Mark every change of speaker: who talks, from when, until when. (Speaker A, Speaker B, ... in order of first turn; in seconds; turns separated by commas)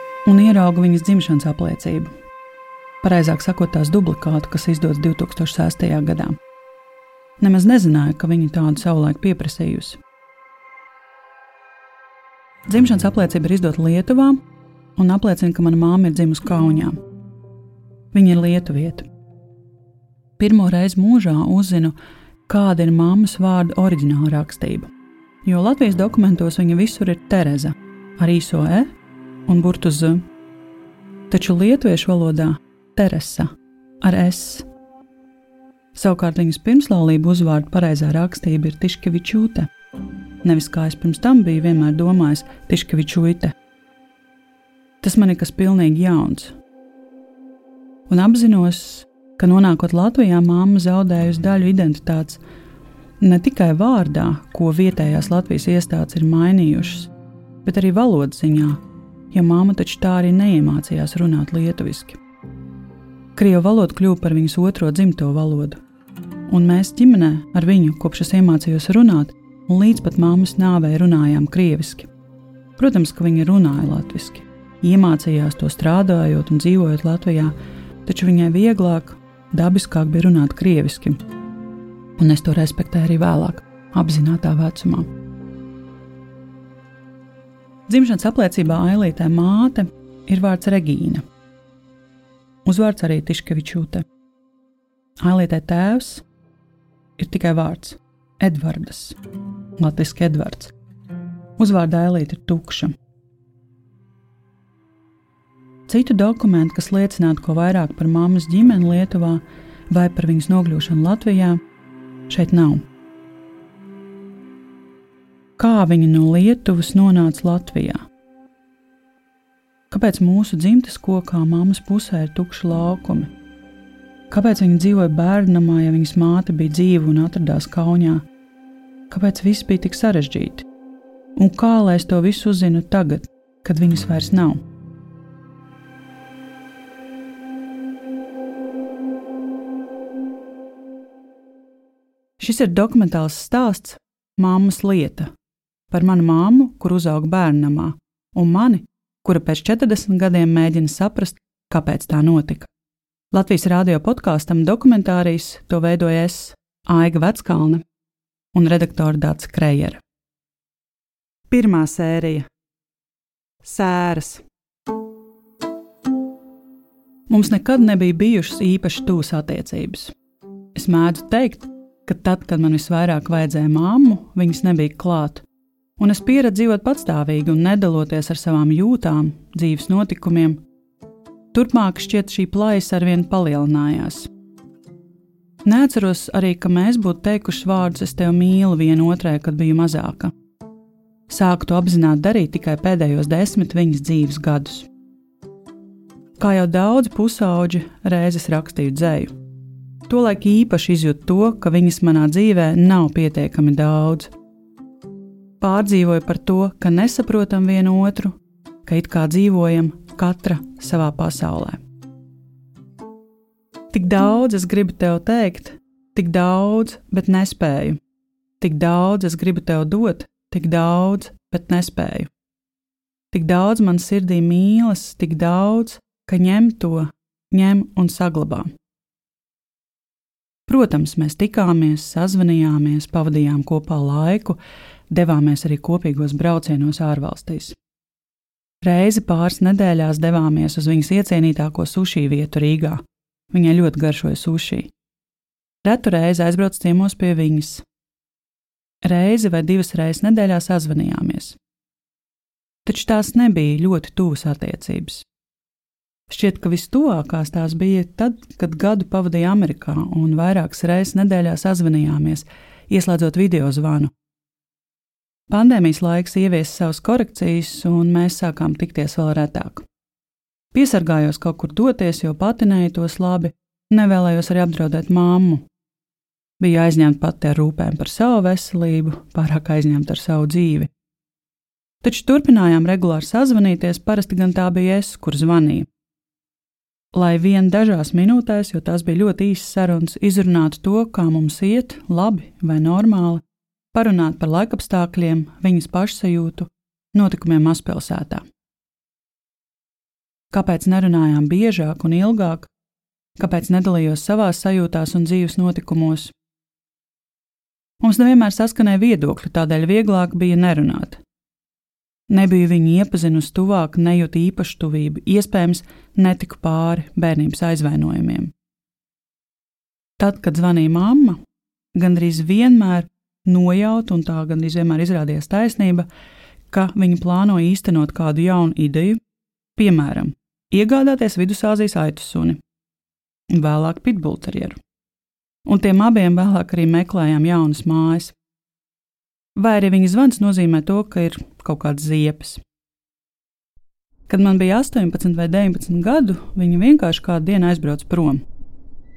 Speaker A: 0.3-2.1, Speaker A: 3.0-6.4, Speaker A: 7.4-10.0, Speaker A: 12.7-14.4, Speaker A: 15.0-17.0, Speaker A: 18.1-19.1, Speaker A: 20.4-21.9, Speaker A: 22.5-24.9, Speaker A: 25.4-28.9, Speaker A: 29.5-30.2, Speaker A: 31.3-33.5, Speaker A: 34.0-34.7, Speaker A: 36.0-39.7, Speaker A: 40.4-43.5, Speaker A: 45.0-46.6, Speaker A: 48.1-52.4, Speaker A: 53.2-57.1, Speaker A: 57.6-58.8, Speaker A: 59.3-62.2, Speaker A: 63.4-65.8, Speaker A: 66.5-72.1, Speaker A: 72.8-81.2, Speaker A: 82.2-85.1, Speaker A: 87.9-91.2, Speaker A: 92.7-94.0, Speaker A: 95.2-96.2, Speaker A: 97.2-99.2, Speaker A: 99.8-100.7, Speaker A: 101.6-102.9, Speaker A: 105.9-111.6, Speaker A: 112.3-112.8, Speaker A: 115.6-118.0, Speaker A: 119.9-123.3, Speaker A: 124.3-128.2, Speaker A: 129.1-130.7, Speaker A: 131.4-134.6, Speaker A: 142.4-145.3, Speaker A: 145.9-152.7, Speaker A: 153.3-157.8, Speaker A: 158.5-160.0, Speaker A: 161.5-162.5, Speaker A: 163.6-164.4, Speaker A: 167.3-170.1, Speaker A: 170.8-175.4, Speaker A: 176.0-180.6, Speaker A: 181.5-184.3, Speaker A: 185.7-190.3, Speaker A: 191.3-194.9, Speaker A: 196.4-199.3, Speaker A: 200.1-204.3, Speaker A: 205.6-211.8, Speaker A: 213.9-218.0, Speaker A: 218.6-222.3, Speaker A: 223.3-228.7, Speaker A: 230.7-234.6, Speaker A: 235.1-237.8, Speaker A: 238.8-244.9, Speaker A: 245.8-247.8, Speaker A: 249.0-251.6, Speaker A: 252.8-255.3, Speaker A: 256.3-264.1, Speaker A: 265.5-269.9, Speaker A: 270.7-275.6, Speaker A: 276.6-280.9, Speaker A: 282.0-285.9, Speaker A: 287.1-293.4, Speaker A: 293.9-298.4, Speaker A: 300.5-302.7, Speaker A: 303.4-306.3, Speaker A: 308.0-311.2, Speaker A: 312.3-318.5, Speaker A: 320.2-321.4, Speaker A: 321.9-326.1, Speaker A: 326.7-329.2, Speaker A: 329.8-332.6, Speaker A: 333.5-334.8, Speaker A: 335.7-338.4, Speaker A: 339.6-342.6, Speaker A: 344.3-348.4